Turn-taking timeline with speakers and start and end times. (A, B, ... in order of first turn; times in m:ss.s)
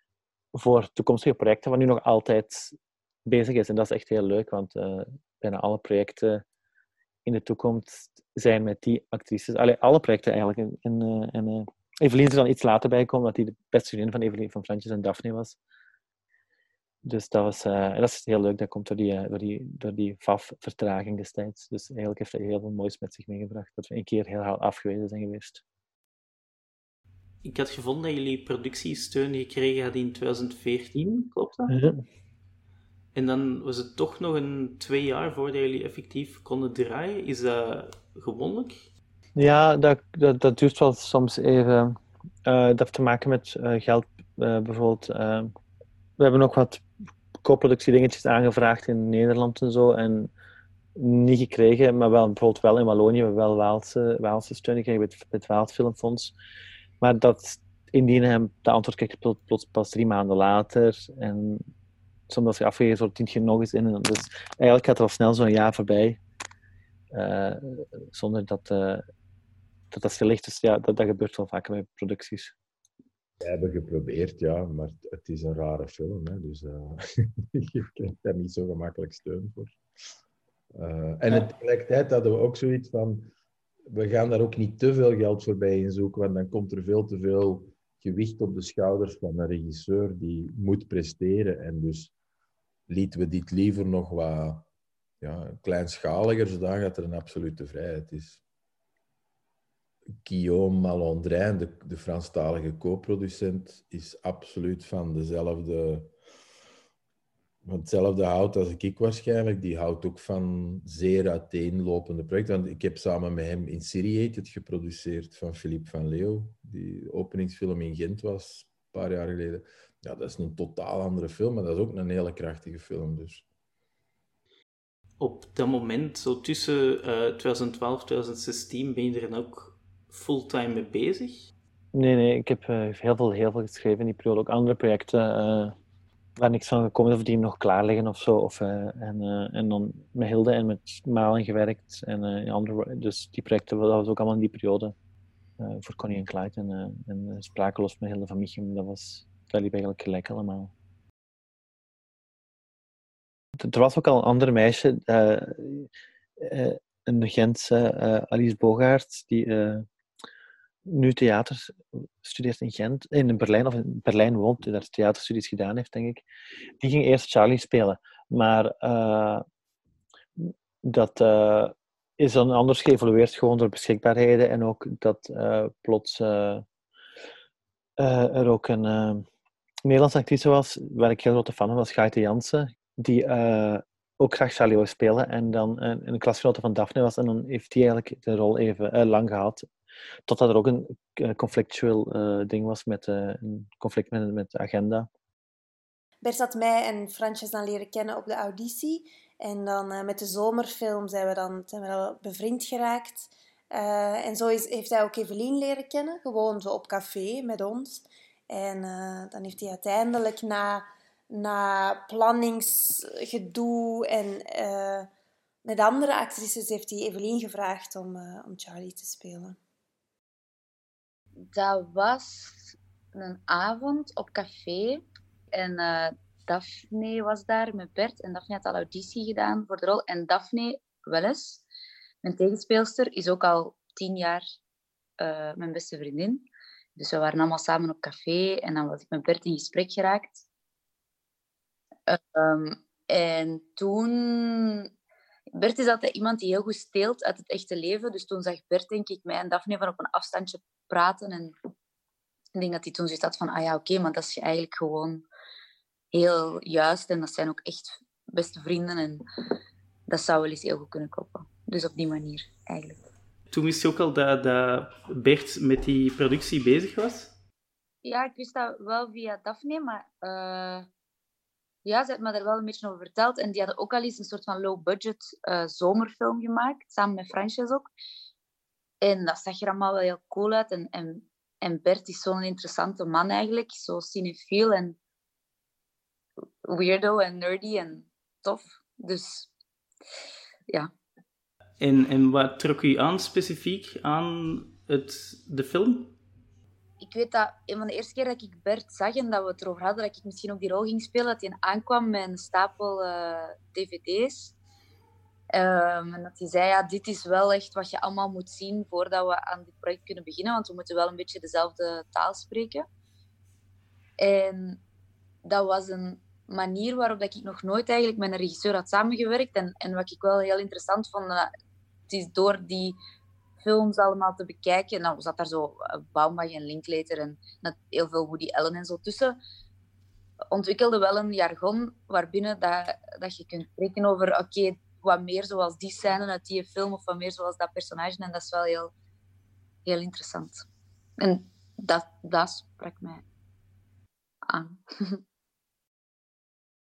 0:00.5-0:06.4 A
0:07.2-0:15.6 A
0:17.0-0:25.6 A
0:27.4-0:31.7 B
0:31.7-0:32.0 A
0:33.1-0:38.8 B
0:39.4-0:45.5 A
0:46.2-0:46.8 A
0:47.4-0:50.3 A
0:51.0-0:56.3 A
0:57.0-1:01.6 A
1:02.3-1:06.2 A
1:07.1-1:09.0 A
1:09.9-1:12.5 A
1:13.4-1:19.8 C
1:20.7-1:23.3 C
1:23.9-1:32.1 C
1:32.9-1:34.7 C
1:35.2-1:38.4 C
1:40.2-1:46.1 C
1:47.6-2:03.4 C
2:05.2-2:11.5 B
2:11.9-2:15.7 A
2:16.4-2:24.9 A
2:25.6-2:30.7 A
2:33.6-2:39.8 A
2:40.8-2:46.2 A
2:46.8-2:49.4 A
2:50.4-2:56.6 A
2:58.0-2:59.2 A
2:59.8-3:09.6 A
3:10.3-3:15.1 A
3:16.2-3:35.1 D
3:35.6-3:39.6 D
3:41.5-3:45.0 E
3:45.5-3:51.6 E
3:52.2-3:54.5 E
3:55.2-4:00.4 E
4:02.1-4:04.9 E
4:05.5-4:11.5 E
4:12.5-4:15.2 E
4:16.1-4:19.2 E
4:20.1-4:23.0 E
4:23.5-4:27.3 B
4:28.0-4:30.9 E
4:31.8-4:37.9 E
4:39.0-4:45.0 E
4:46.7-4:49.5 E
4:51.8-4:56.2 B
4:57.0-5:04.6 E
5:05.5-5:12.9 E
5:14.2-5:14.8 E
5:15.4-5:21.5 E
5:22.1-5:23.0 E
5:23.6-5:29.4 E
5:30.5-5:38.9 E
5:39.8-5:40.6 E
5:41.2-5:43.2 E
5:44.5-5:45.2 E